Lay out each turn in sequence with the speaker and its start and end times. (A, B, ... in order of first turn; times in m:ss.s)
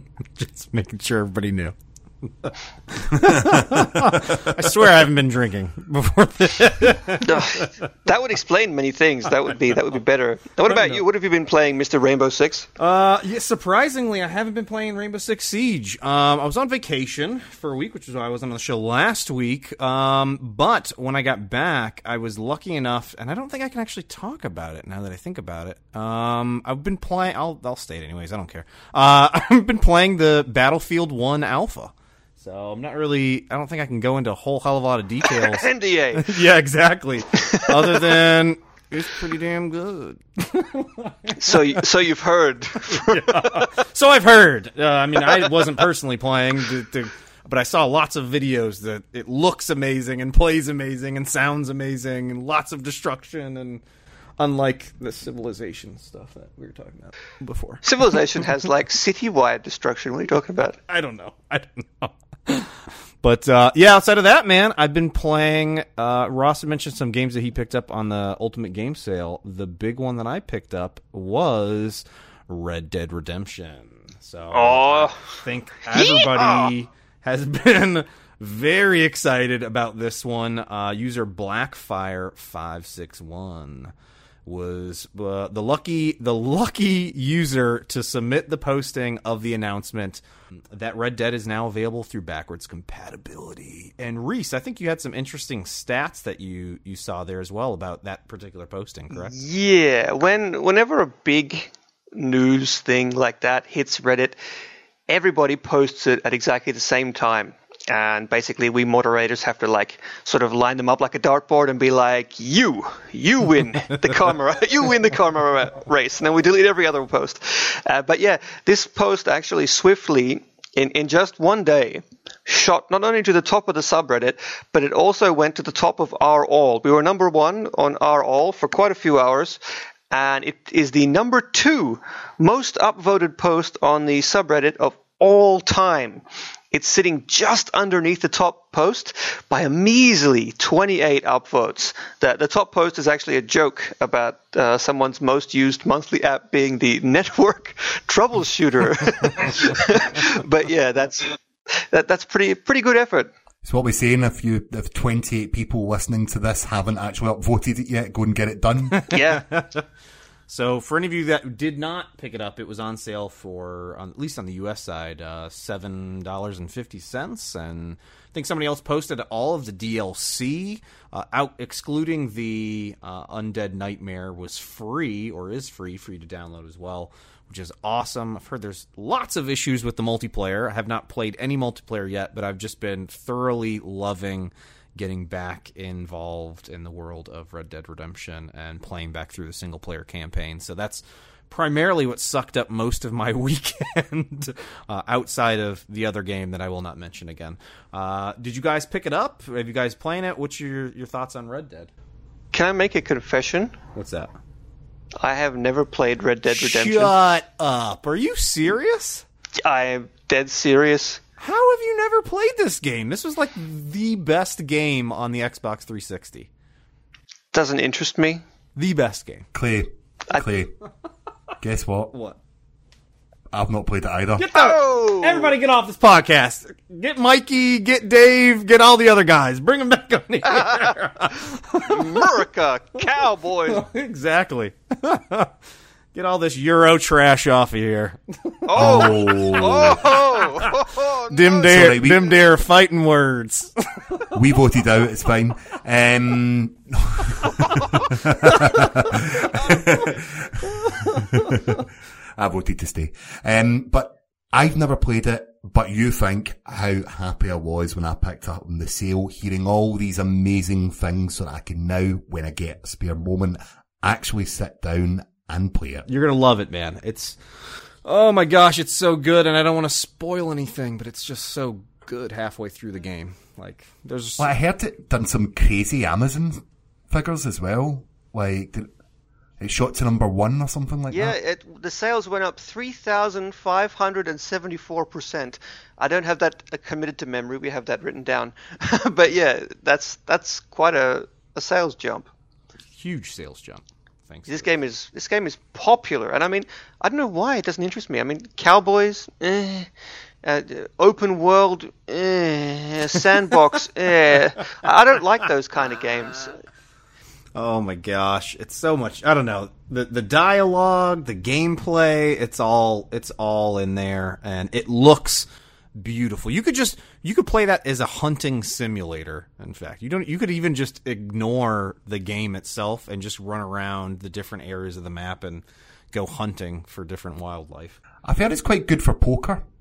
0:00.4-0:07.7 A
0:03.2-0:04.4 B
0:07.2-0:12.7 C
0:10.7-0:11.0 A
0:12.8-0:41.8 A
0:35.3-0:36.4 C
0:37.5-0:38.0 C
0:41.4-0:43.6 C
0:42.9-0:53.8 A
0:54.4-0:57.8 A
0:57.8-1:00.8 C
1:00.9-1:23.9 A
1:14.5-1:15.2 C
1:15.9-1:16.7 C
1:24.4-1:39.3 A
1:39.1-1:44.4 C
1:45.1-2:09.6 C
2:10.1-2:33.3 C
2:33.6-2:39.0 B
2:39.0-2:39.8 A
2:39.1-2:39.4 C
2:40.5-3:21.9 A
3:22.5-3:23.7 C
3:23.9-3:24.3 A
3:25.2-3:27.1 C
3:26.5-3:29.2 A
3:29.6-3:31.2 C
3:31.4-3:36.5 A
3:37.5-3:38.4 C
3:38.8-3:39.5 A
3:39.5-3:40.7 B
3:41.6-3:42.1 B
3:42.1-3:42.4 A
3:43.5-3:44.5 B
3:44.4-3:52.2 A
3:44.5-3:45.5 C
3:51.8-3:53.8 C
3:53.7-3:55.5 A
3:56.1-4:00.7 A
3:58.7-4:01.8 C
3:58.8-4:00.0 B
4:01.3-4:04.3 A
4:01.7-4:02.4 B
4:04.3-4:26.0 B
4:26.1-4:34.5 A
4:34.4-4:38.9 B
4:39.6-4:41.4 B
4:41.1-4:52.3 C
4:52.9-4:54.7 A
4:54.5-4:59.9 C
5:00.4-5:06.6 C
5:07.5-5:28.0 A
5:28.2-5:29.6 B